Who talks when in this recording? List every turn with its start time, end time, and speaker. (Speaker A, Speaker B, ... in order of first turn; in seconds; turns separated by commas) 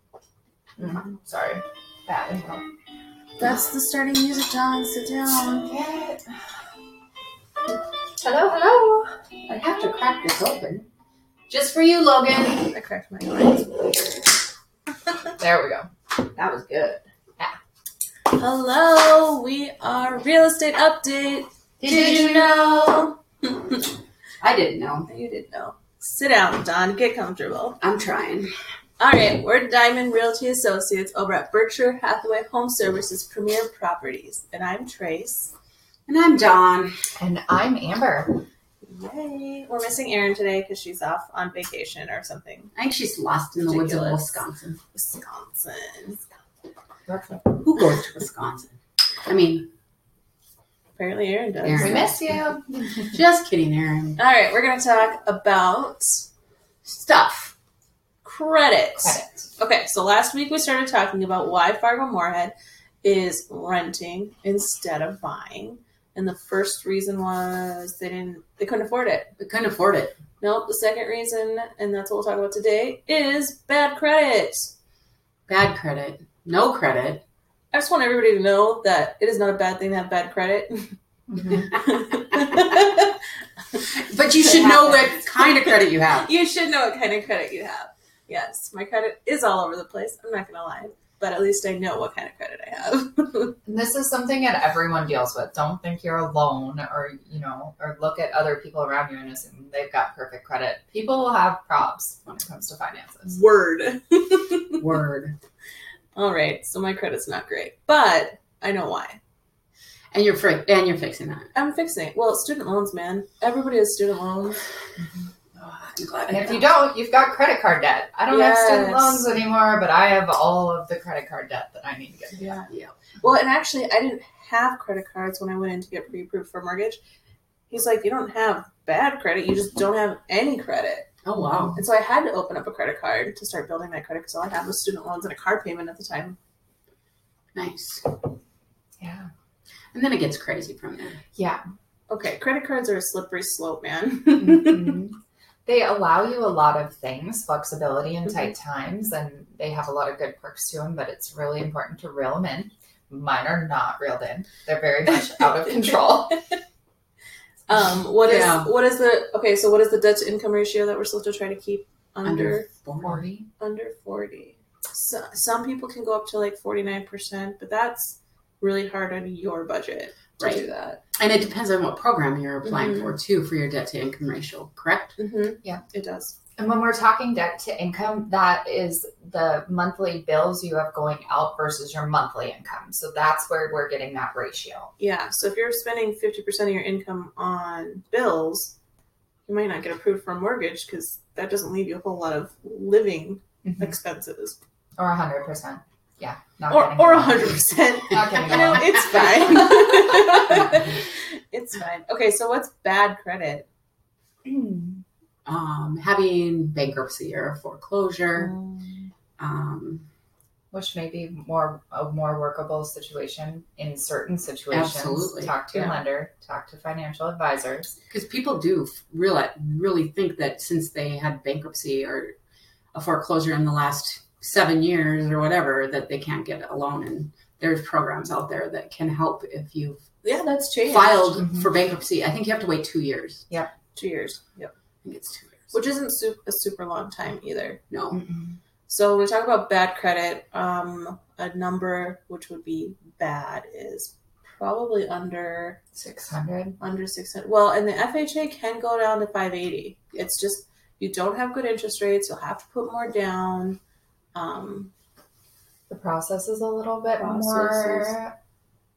Speaker A: 0.8-2.6, Speaker B: 3.4-5.7, Speaker A: 5.6-6.3, Speaker A: 8.2-9.2, Speaker C: 9.4-10.9, Speaker C: 11.5-12.7, Speaker B: 12.7-14.1, Speaker A: 15.4-15.9, Speaker C: 16.4-17.0, Speaker B: 18.3-23.5, Speaker C: 21.8-23.1, Speaker C: 24.4-25.1, Speaker B: 25.1-27.8, Speaker C: 27.8-28.5, Speaker B: 29.0-35.5, Speaker C: 36.1-36.9, Speaker A: 37.2-38.4, Speaker B: 38.8-42.7, Speaker C: 42.7-44.8, Speaker B: 43.7-44.3, Speaker B: 44.9-46.2, Speaker A: 47.1-47.6, Speaker C: 47.6-49.7, Speaker B: 51.0-52.1, Speaker C: 51.6-52.4, Speaker A: 51.8-53.1, Speaker C: 52.9-54.2, Speaker B: 54.2-56.3, Speaker C: 56.8-57.5, Speaker B: 58.2-69.3, Speaker A: 59.0-59.4, Speaker C: 69.4-70.2, Speaker B: 70.4-74.7, Speaker C: 75.5-77.2, Speaker B: 77.7-83.2, Speaker A: 81.3-81.7, Speaker C: 83.9-86.3, Speaker B: 84.4-93.5, Speaker A: 84.6-85.1, Speaker A: 93.7-103.4, Speaker B: 103.3-104.8, Speaker C: 104.8-105.4, Speaker B: 106.1-109.2, Speaker C: 110.1-111.5, Speaker B: 111.5-114.6, Speaker C: 115.5-116.7, Speaker A: 116.3-122.5, Speaker B: 118.3-119.2, Speaker B: 122.4-127.0, Speaker C: 122.7-122.9, Speaker B: 127.7-131.2, Speaker C: 131.2-131.8, Speaker A: 131.4-131.8, Speaker B: 131.7-136.4, Speaker C: 137.5-138.1, Speaker A: 139.0-139.3, Speaker C: 139.9-141.2, Speaker A: 141.3-141.6, Speaker B: 142.1-145.0, Speaker A: 144.3-156.4, Speaker B: 155.9-156.4, Speaker B: 157.7-162.7, Speaker C: 158.2-158.7, Speaker C: 162.2-163.2, Speaker A: 163.0-163.5, Speaker B: 163.6-171.0, Speaker C: 170.4-175.2, Speaker B: 172.6-173.1, Speaker B: 175.2-176.3, Speaker A: 176.6-184.9, Speaker B: 185.0-188.7, Speaker B: 189.5-194.6, Speaker A: 193.6-193.9, Speaker A: 195.0-200.0, Speaker B: 196.7-203.7, Speaker C: 198.3-200.8, Speaker A: 204.4-205.0, Speaker C: 205.4-208.5, Speaker B: 208.4-209.1, Speaker C: 209.4-210.1, Speaker A: 210.7-217.9, Speaker C: 214.7-215.9, Speaker C: 218.1-222.3, Speaker C: 222.9-230.1, Speaker B: 230.2-231.5, Speaker C: 230.8-233.4, Speaker B: 233.9-234.7, Speaker C: 235.0-235.7, Speaker B: 235.7-237.8, Speaker C: 237.9-238.2, Speaker A: 238.1-238.6, Speaker B: 238.9-245.8, Speaker A: 245.9-246.8, Speaker B: 246.8-253.8, Speaker B: 254.3-254.9, Speaker A: 255.9-258.3, Speaker B: 257.2-258.1